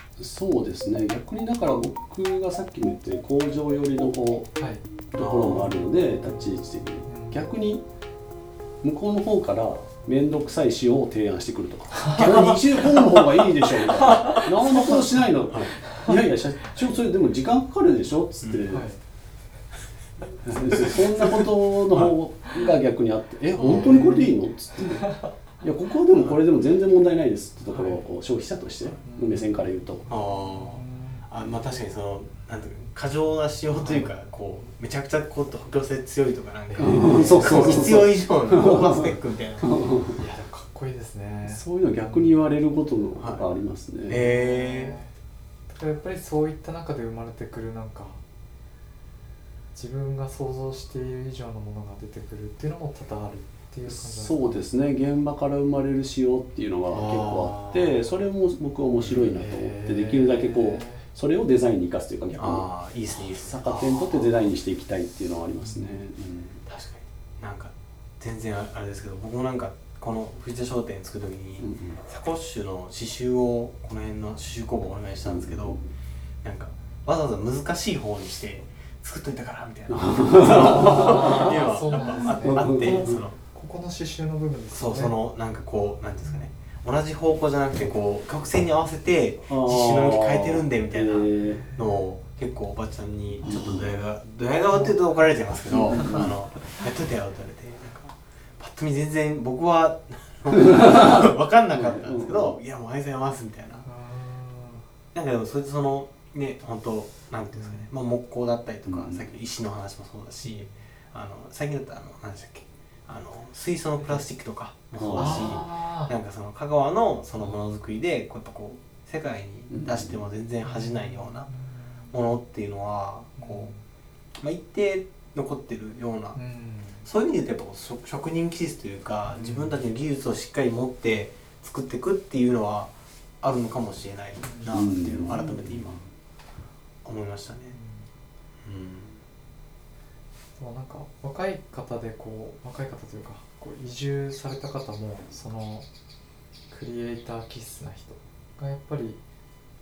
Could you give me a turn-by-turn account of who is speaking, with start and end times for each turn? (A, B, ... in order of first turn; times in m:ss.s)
0:00.2-0:04.5 A
0:04.6-0:04.8 B
0:05.1-0:07.8 A
0:05.2-0:05.7 C
0:06.2-0:07.5 B
0:08.8-0:18.9 A
0:11.9-0:12.9 B
0:12.2-0:13.0 C
0:13.8-0:14.5 B
0:15.8-0:16.8 B
0:18.4-0:18.7 C
0:18.7-0:19.0 B
0:20.4-0:30.1 A
0:20.7-0:22.1 C
0:23.6-0:24.1 C
0:23.7-0:24.3 B
0:24.9-0:25.3 B
0:27.7-0:28.0 B
0:29.0-0:29.5 B
0:30.1-0:39.8 C
0:30.5-0:31.3 B
0:33.8-0:34.2 B
0:36.7-0:38.0 B
0:36.8-0:40.2 A
0:40.1-0:42.4 B
0:41.5-0:44.2 A
0:43.2-0:43.5 C
0:44.1-0:45.0 C
0:44.1-0:45.1 B
0:45.7-0:48.2 B
0:49.8-0:54.4 B
0:53.9-1:06.6 A
0:56.9-0:57.9 B
0:57.0-0:57.5 C
0:59.0-0:59.2 C
0:59.4-1:01.1 B
1:02.3-1:04.4 C
1:05.6-1:06.0 B
1:06.7-1:15.8 C
1:11.6-1:12.0 A
1:15.2-1:15.8 A
1:16.4-1:23.4 C
1:19.9-1:23.2 A
1:20.4-1:25.1 B
1:24.7-1:43.9 C
1:29.5-1:31.6 A
1:33.4-1:33.8 A
1:34.7-1:35.0 B
1:35.7-1:36.4 A
1:40.6-1:41.2 A
1:41.7-1:42.6 A
1:43.8-1:44.8 B
1:45.1-2:01.5 C
1:47.5-1:47.9 B
1:48.9-1:49.3 A
1:50.4-1:50.7 B
1:55.0-1:55.6 A
1:55.1-1:56.2 B
1:59.7-2:00.2 A
2:00.6-2:02.2 B
2:02.1-2:03.7 C
2:03.4-2:03.8 B
2:04.4-2:06.4 C
2:06.4-2:07.1 B
2:07.0-2:16.0 C
2:09.3-2:09.8 B
2:14.4-2:14.8 B
2:14.7-2:16.1 A
2:15.3-2:15.6 B
2:17.0-2:17.8 C
2:17.7-2:18.1 B
2:18.6-2:19.2 C
2:20.6-2:25.9 B
2:26.7-2:29.2 B